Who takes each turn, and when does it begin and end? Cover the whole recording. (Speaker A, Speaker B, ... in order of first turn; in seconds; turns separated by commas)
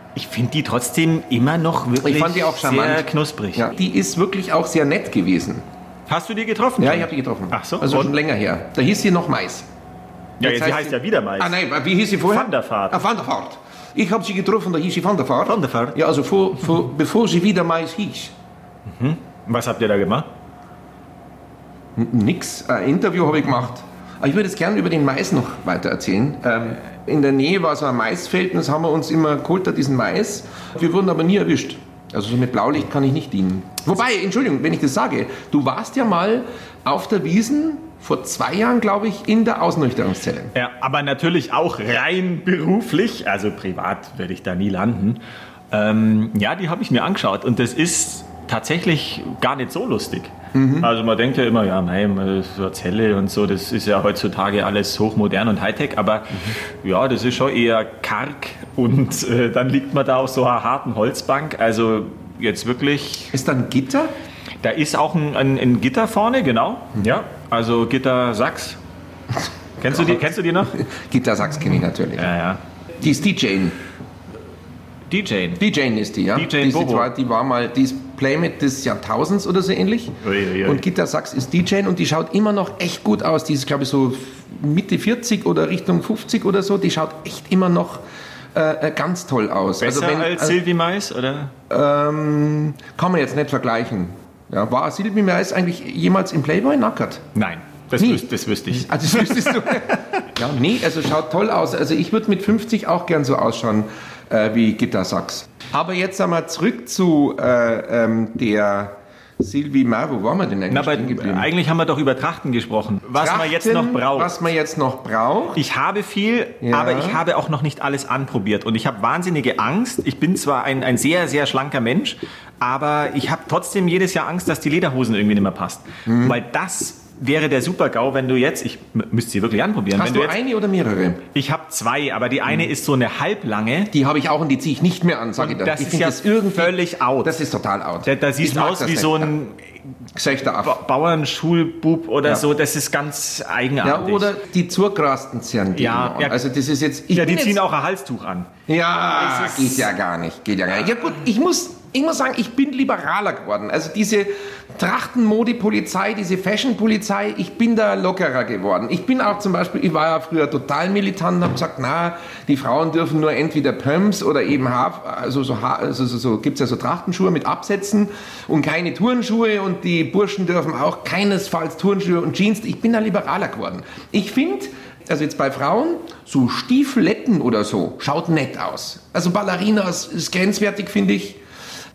Speaker A: 0.1-3.7, Speaker B: 2.0-5.7, Speaker A: 6.1-8.1, Speaker B: 6.8-9.7, Speaker A: 10.4-11.6, Speaker B: 10.4-18.3, Speaker A: 12.3-13.0, Speaker A: 15.5-16.0, Speaker A: 18.9-20.3, Speaker B: 22.0-40.5, Speaker A: 40.5-63.4, Speaker B: 50.5-50.9, Speaker B: 63.3-64.1, Speaker A: 64.6-68.8, Speaker A: 69.8-70.8, Speaker B: 69.9-72.3, Speaker A: 72.2-72.6, Speaker B: 73.0-73.8, Speaker A: 75.1-75.6, Speaker B: 75.6-88.0, Speaker A: 76.3-77.1, Speaker A: 80.2-80.8, Speaker B: 88.5-90.6, Speaker A: 89.8-91.5, Speaker B: 91.7-97.2, Speaker A: 97.3-100.2, Speaker B: 98.0-111.5, Speaker A: 110.7-114.3, Speaker B: 113.2-115.6, Speaker A: 115.5-130.4, Speaker B: 116.6-117.2, Speaker B: 126.1-126.4, Speaker B: 129.9-131.2, Speaker A: 131.3-133.9, Speaker B: 133.9-139.3, Speaker A: 135.4-137.3, Speaker A: 138.0-139.8, Speaker B: 140.2-140.8, Speaker A: 140.6-144.3, Speaker B: 143.8-147.6, Speaker A: 145.7-146.4, Speaker A: 147.1-148.5, Speaker B: 148.7-181.4, Speaker A: 149.1-149.9